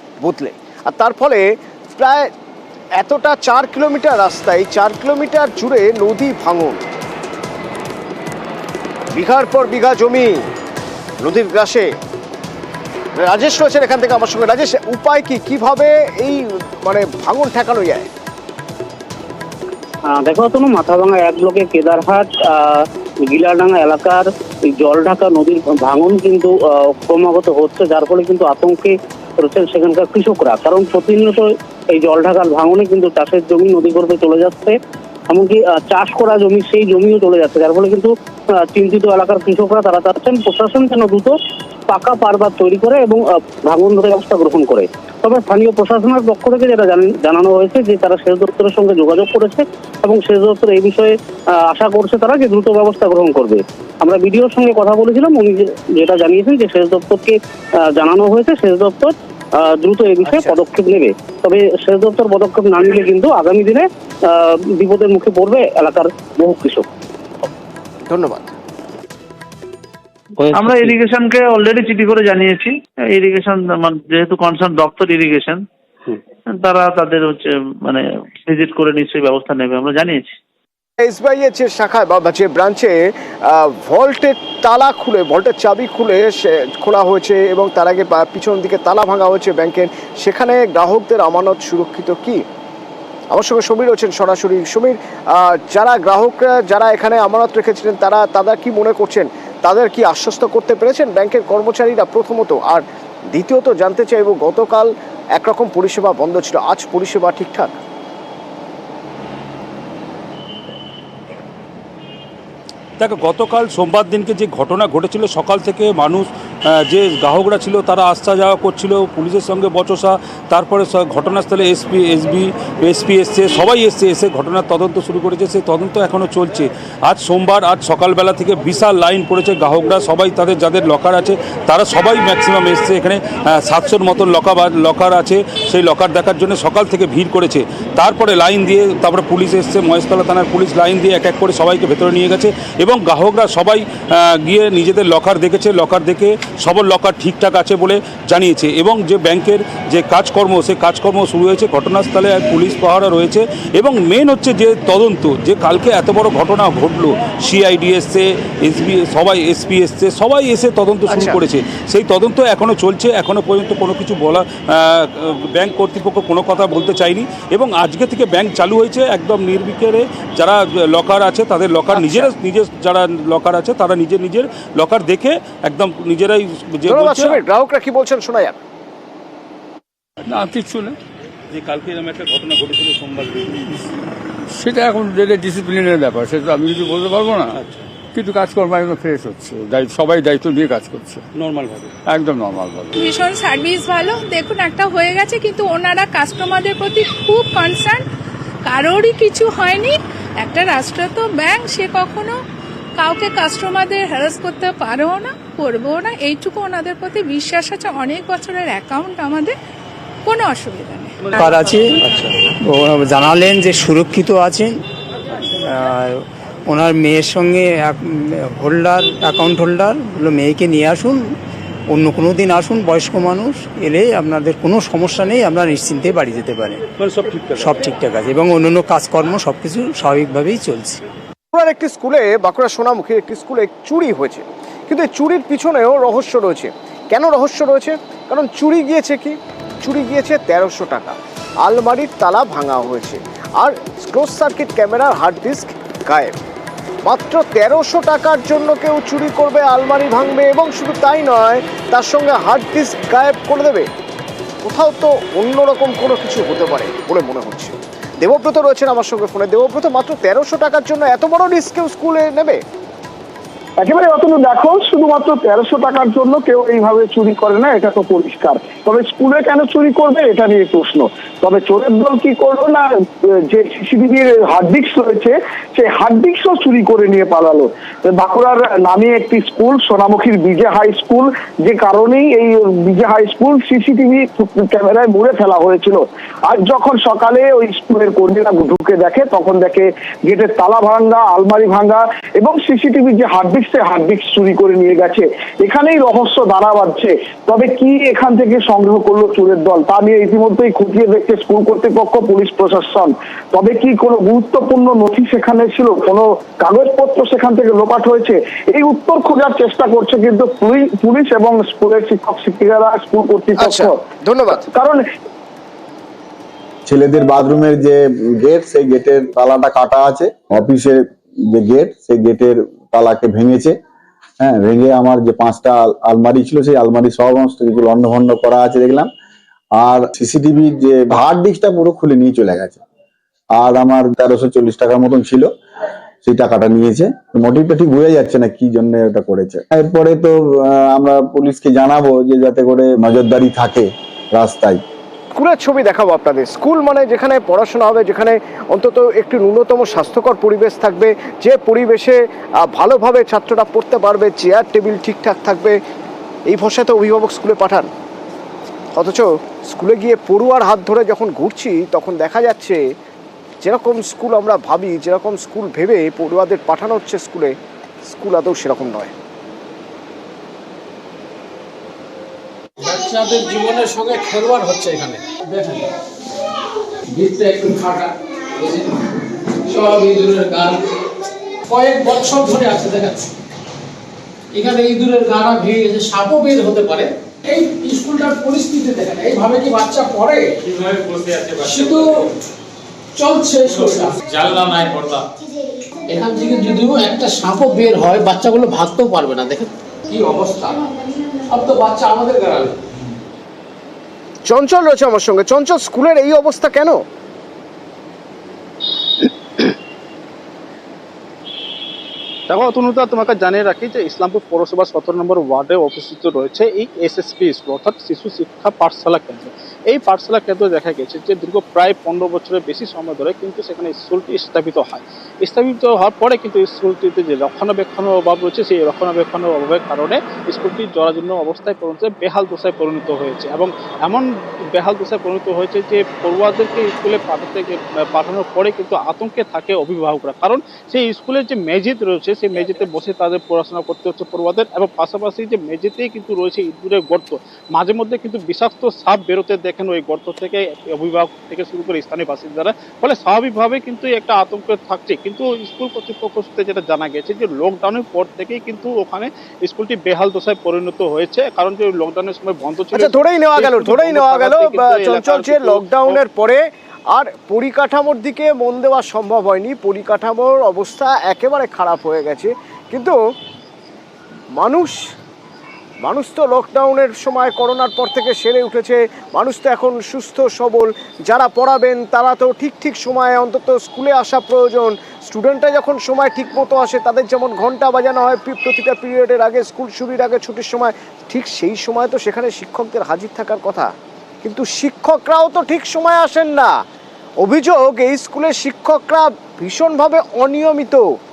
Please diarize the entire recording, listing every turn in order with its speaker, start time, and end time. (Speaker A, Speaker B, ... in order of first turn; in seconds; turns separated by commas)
Speaker A: 0.2-2.3, Speaker A: 3.0-6.8, Speaker A: 9.1-10.4, Speaker A: 11.2-11.9, Speaker A: 13.2-18.1, Speaker B: 20.1-24.2, Speaker B: 24.8-34.8, Speaker B: 35.3-38.1, Speaker B: 38.7-41.3, Speaker B: 41.9-51.1, Speaker B: 51.7-57.4, Speaker B: 58.0-66.8, Speaker A: 60.2-60.6, Speaker A: 68.1-68.5, Speaker C: 70.5-75.6, Speaker C: 76.5-80.2, Speaker A: 81.0-83.0, Speaker A: 83.5-92.4, Speaker A: 93.3-107.8, Speaker D: 113.0-116.3, Speaker D: 116.9-143.8, Speaker D: 144.4-177.4, Speaker A: 161.1-161.4, Speaker A: 171.9-172.3, Speaker A: 176.8-178.6, Speaker E: 180.3-180.9, Speaker D: 181.5-183.5, Speaker E: 184.5-187.6, Speaker E: 188.1-191.2, Speaker D: 191.3-191.9, Speaker E: 192.1-192.9, Speaker F: 192.9-198.0, Speaker F: 198.7-202.4, Speaker F: 203.0-209.5, Speaker F: 210.2-211.6, Speaker G: 211.4-212.0, Speaker G: 212.7-214.7, Speaker G: 215.5-221.2, Speaker G: 221.9-226.8, Speaker D: 227.0-227.7, Speaker G: 227.5-231.0, Speaker A: 231.5-246.3, Speaker A: 247.0-253.9, Speaker A: 254.6-262.6, Speaker H: 263.8-314.0, Speaker A: 313.6-314.6, Speaker H: 314.6-315.0, Speaker I: 316.9-323.8, Speaker I: 324.4-329.1, Speaker I: 329.8-332.8, Speaker I: 333.5-335.5, Speaker I: 336.2-344.8, Speaker A: 345.4-355.8, Speaker A: 356.5-357.9, Speaker A: 358.9-362.8, Speaker A: 363.6-367.6, Speaker A: 368.1-369.1, Speaker J: 372.8-375.8, Speaker J: 377.1-379.0, Speaker J: 379.7-380.8, Speaker J: 381.7-383.3, Speaker J: 384.5-390.4, Speaker J: 391.6-392.3, Speaker J: 393.2-395.0, Speaker J: 396.1-400.8, Speaker J: 401.5-402.7, Speaker A: 404.4-407.0, Speaker K: 412.5-466.2, Speaker A: 462.9-473.2, Speaker A: 474.6-475.0, Speaker A: 476.0-496.8, Speaker A: 497.4-501.1